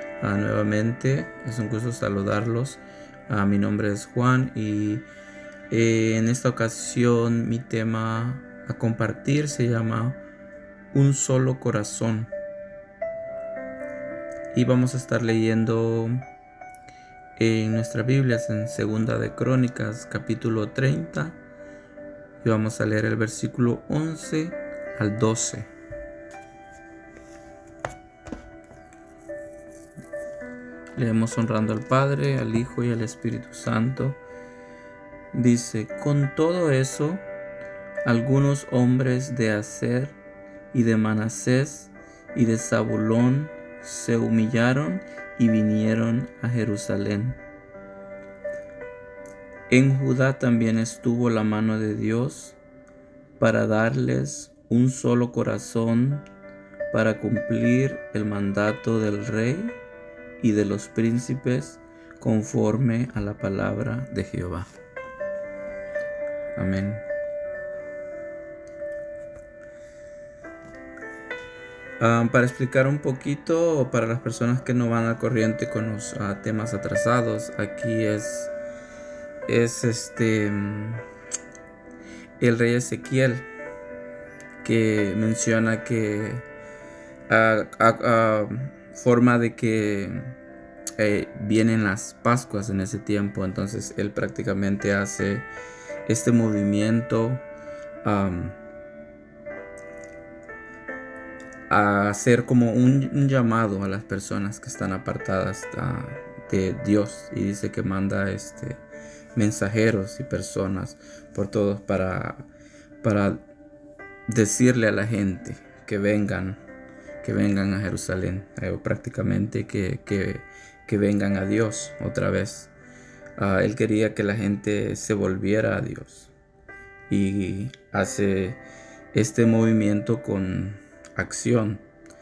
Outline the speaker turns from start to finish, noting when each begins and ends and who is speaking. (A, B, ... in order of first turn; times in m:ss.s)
0:00.2-0:05.0 A
0:05.7-0:10.2 A
0:10.9-0:12.3 A
0:14.5-0:16.2 A
0:17.4-0:21.4 A
0:22.4-0:25.7 A
0:31.0-0:34.2 A
0:35.3-0:37.2 A
0:38.0-0:40.2 A
0:40.7-0:47.4 A
0:49.7-0:52.6 A
0:53.4-0:56.2 A
0:56.9-0:59.8 A
1:00.4-1:04.7 A
1:06.6-1:07.0 A
1:12.0-1:18.5 A
1:19.4-1:21.0 A
1:22.4-1:23.5 A
1:24.6-1:26.4 A
1:27.3-1:30.4 A
1:31.0-1:35.5 A
1:36.0-1:37.4 A
1:38.0-1:38.6 A
1:41.7-1:48.8 A
1:49.3-1:52.5 A
1:53.0-1:53.4 A
1:54.3-1:56.6 A
1:57.2-2:02.7 A
2:03.4-2:06.3 A
2:07.1-2:08.6 A
2:09.1-2:11.8 A